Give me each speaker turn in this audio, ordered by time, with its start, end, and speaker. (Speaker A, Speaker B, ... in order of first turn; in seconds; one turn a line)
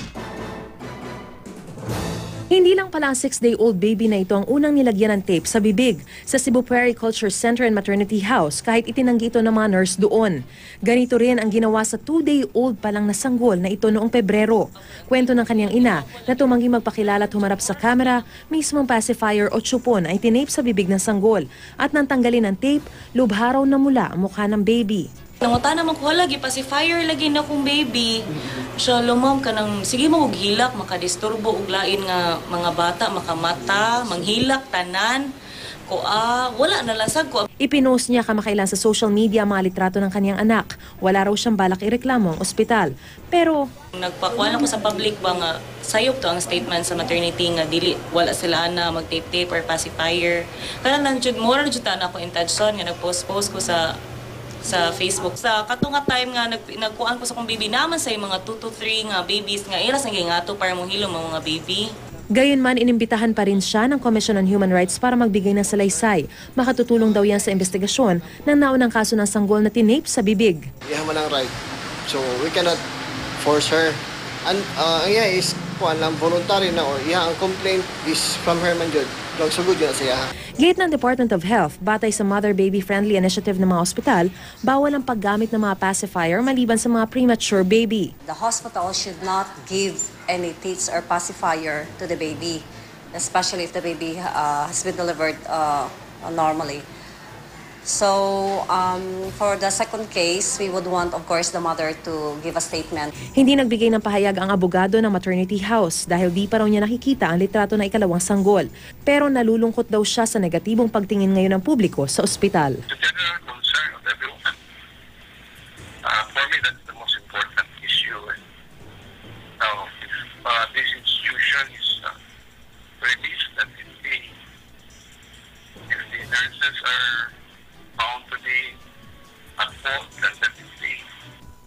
Speaker A: 2.5-25.0
Speaker B: 14.9-18.1
Speaker B: 25.4-35.2
Speaker B: 35.9-37.5
Speaker A: 37.6-43.6
Speaker B: 44.0-53.8
Speaker B: 54.6-61.9
Speaker A: 62.4-70.6
Speaker C: 70.9-71.5
Speaker C: 72.1-72.8
Speaker C: 73.4-74.0
Speaker C: 74.5-80.3
Speaker A: 80.6-88.1
Speaker D: 88.2-96.8
Speaker D: 97.8-103.1
Speaker A: 103.3-112.8
Speaker E: 112.9-114.5
Speaker E: 116.0-118.3
Speaker E: 119.6-122.1
Speaker E: 123.0-124.3
Speaker E: 125.9-127.3
Speaker E: 128.0-128.8
Speaker E: 129.6-131.0